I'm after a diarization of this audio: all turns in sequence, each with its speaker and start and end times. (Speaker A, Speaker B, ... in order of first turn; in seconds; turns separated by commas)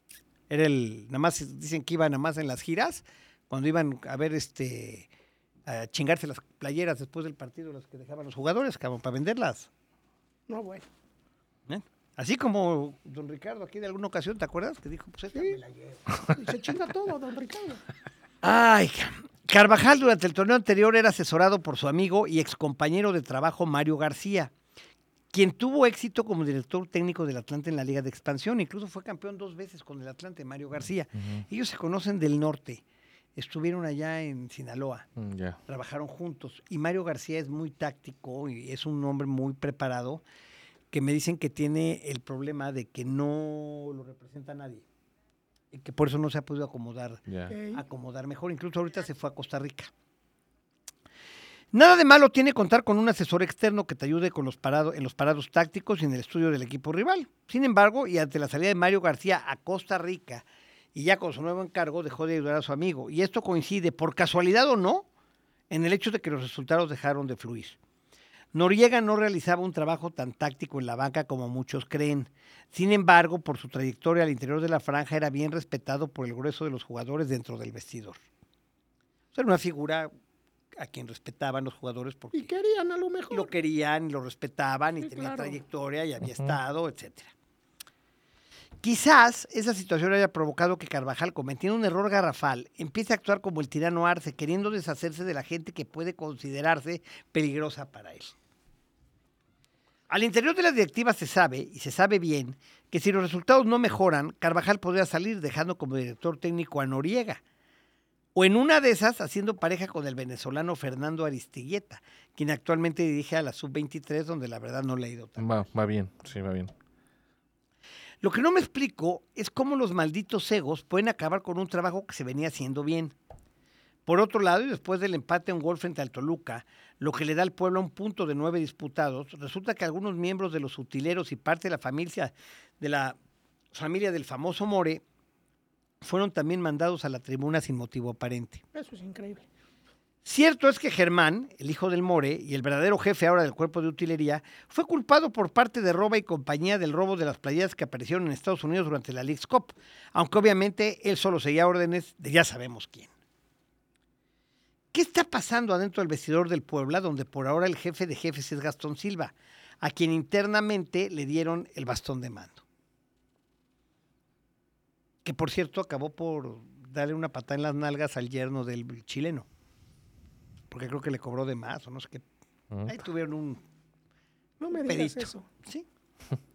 Speaker A: 0.5-5.1, Speaker A: 5.7-9.7, Speaker B: 10.5-10.8, Speaker A: 11.7-16.0, Speaker B: 15.3-15.6, Speaker B: 16.3-17.8, Speaker A: 18.4-24.5, Speaker A: 25.3-32.8, Speaker A: 33.4-35.1, Speaker C: 35.2-35.6, Speaker A: 35.7-40.2, Speaker A: 40.9-44.8, Speaker A: 45.7-49.9, Speaker C: 47.3-47.5, Speaker B: 47.5-47.8, Speaker A: 51.7-65.0, Speaker A: 65.7-67.8, Speaker A: 68.5-78.2, Speaker A: 79.3-80.1, Speaker A: 80.8-82.5, Speaker B: 82.3-83.5, Speaker A: 83.3-87.3, Speaker B: 85.0-85.5, Speaker C: 86.2-86.5, Speaker A: 88.8-98.3, Speaker A: 100.1-107.4, Speaker A: 108.3-115.5, Speaker C: 115.4-116.7, Speaker A: 118.2-123.1, Speaker A: 124.0-133.2, Speaker A: 133.7-135.0, Speaker A: 136.0-138.6, Speaker B: 138.7-139.4, Speaker A: 140.2-153.1, Speaker A: 154.9-162.6, Speaker A: 165.2-169.5, Speaker A: 170.7-172.2, Speaker A: 172.8-173.6, Speaker B: 174.6-175.5, Speaker A: 174.8-175.9